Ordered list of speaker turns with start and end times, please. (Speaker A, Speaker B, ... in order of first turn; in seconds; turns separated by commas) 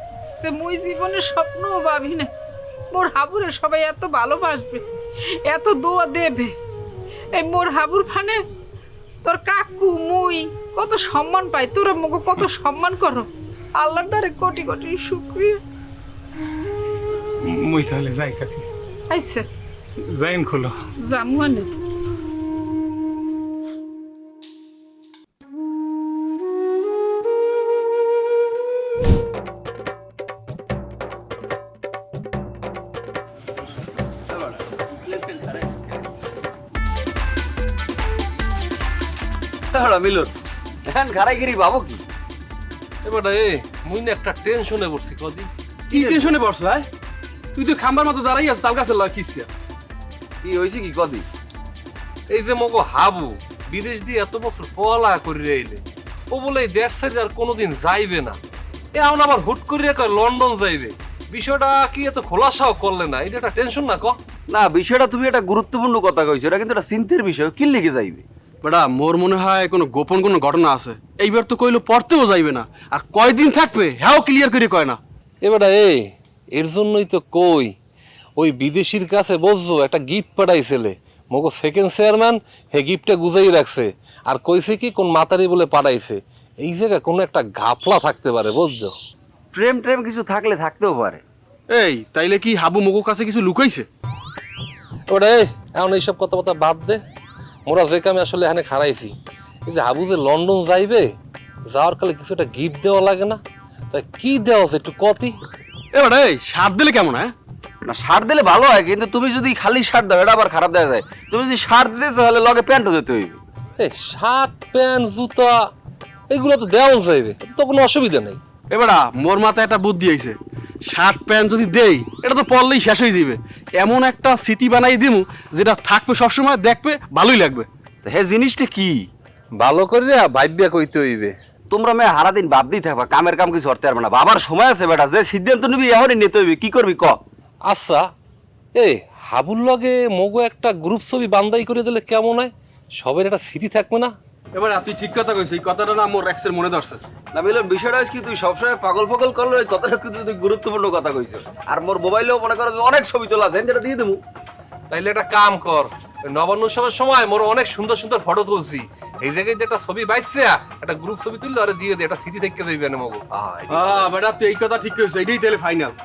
Speaker A: 0.4-2.3, Speaker A: 2.9-4.8, Speaker A: 5.4-6.5, Speaker A: 7.3-8.4, Speaker A: 9.2-15.6, Speaker B: 17.4-18.6, Speaker A: 19.1-19.4, Speaker B: 20.1-20.7, Speaker A: 21.0-21.7, Speaker C: 34.3-35.8, Speaker C: 39.7-40.3, Speaker C: 40.9-42.0, Speaker D: 43.0-45.5, Speaker E: 45.9-46.9, Speaker C: 45.9-46.3, Speaker E: 47.5-49.5, Speaker C: 50.4-51.2, Speaker D: 52.3-58.4, Speaker D: 58.9-64.2, Speaker C: 64.5-68.2, Speaker E: 68.6-75.0, Speaker D: 75.4-76.0, Speaker D: 76.5-77.7, Speaker D: 78.4-88.9, Speaker C: 89.5-91.2, Speaker E: 91.7-93.9, Speaker D: 95.1-97.0, Speaker D: 97.7-99.1, Speaker D: 99.7-101.1, Speaker D: 101.7-103.4, Speaker D: 103.9-105.3, Speaker E: 105.9-107.3, Speaker C: 107.8-113.4, Speaker D: 113.8-115.5, Speaker D: 116.3-118.4, Speaker E: 118.7-127.7, Speaker C: 128.0-129.1, Speaker D: 129.6-131.3, Speaker C: 131.7-137.2, Speaker D: 137.7-138.0, Speaker D: 138.7-144.1, Speaker E: 144.5-147.0, Speaker C: 147.3-154.2, Speaker D: 154.9-163.9, Speaker C: 163.4-163.8, Speaker E: 163.7-165.9